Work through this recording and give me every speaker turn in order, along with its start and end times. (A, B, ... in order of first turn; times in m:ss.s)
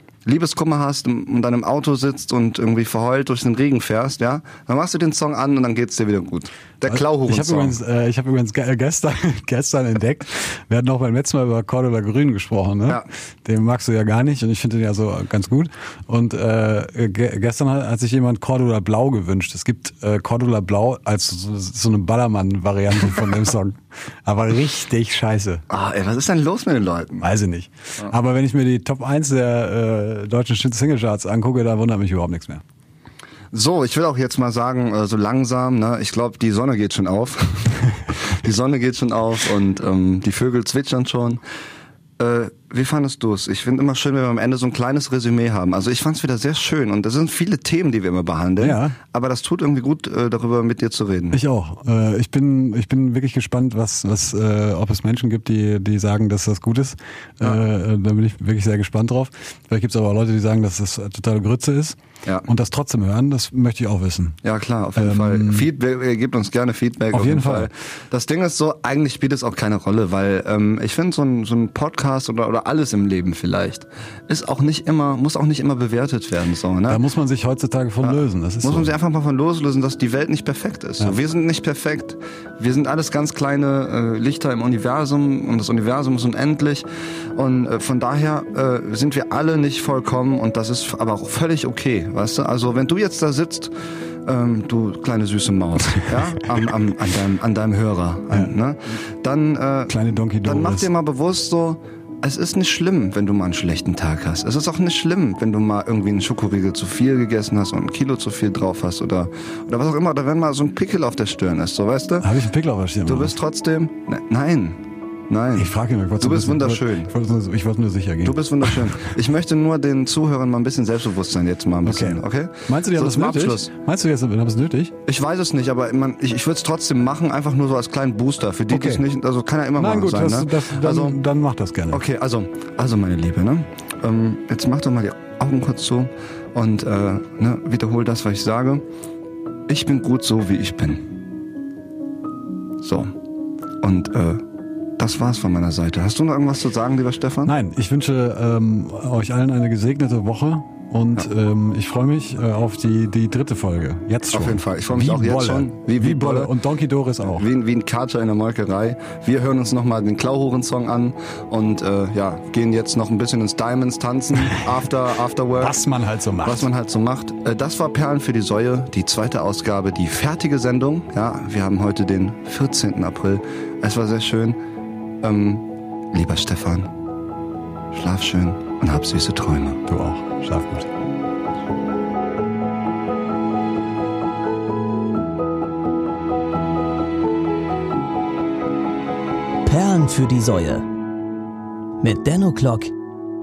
0:00.2-0:07.8 A
0:06.8-0:25.6 B
0:25.7-0:27.2 A
0:27.2-0:32.6 B
0:33.5-0:41.4 A
0:42.2-0:51.4 A
0:48.6-0:49.0 B
0:51.3-1:04.4 B
1:04.4-1:17.0 A
1:05.0-1:05.7 B
1:07.1-1:07.7 B
1:16.9-1:18.9 B
1:18.0-1:33.7 A
1:34.2-1:39.9 A
1:39.9-1:40.9 B
1:40.4-1:52.3 A
1:52.2-1:53.4 B
1:53.0-1:57.1 A
1:55.6-1:59.1 B
1:58.2-2:03.7 A
2:01.8-2:04.9 B
2:05.0-2:11.2 A
2:08.7-2:09.0 B
2:09.8-2:12.0 B
2:11.9-2:18.8 A
2:19.7-2:21.1 A
2:22.8-2:23.1 A
2:23.8-2:24.4 A
2:25.0-2:27.5 A
2:27.4-2:37.5 B
2:34.3-2:36.5 A
2:37.3-2:45.8 A
2:45.6-2:46.7 B
2:46.4-2:54.6 A
2:55.2-2:56.9 A
2:57.9-2:59.8 A
2:59.9-3:00.9 B
3:09.6-3:10.8 C
3:12.0-3:12.9 C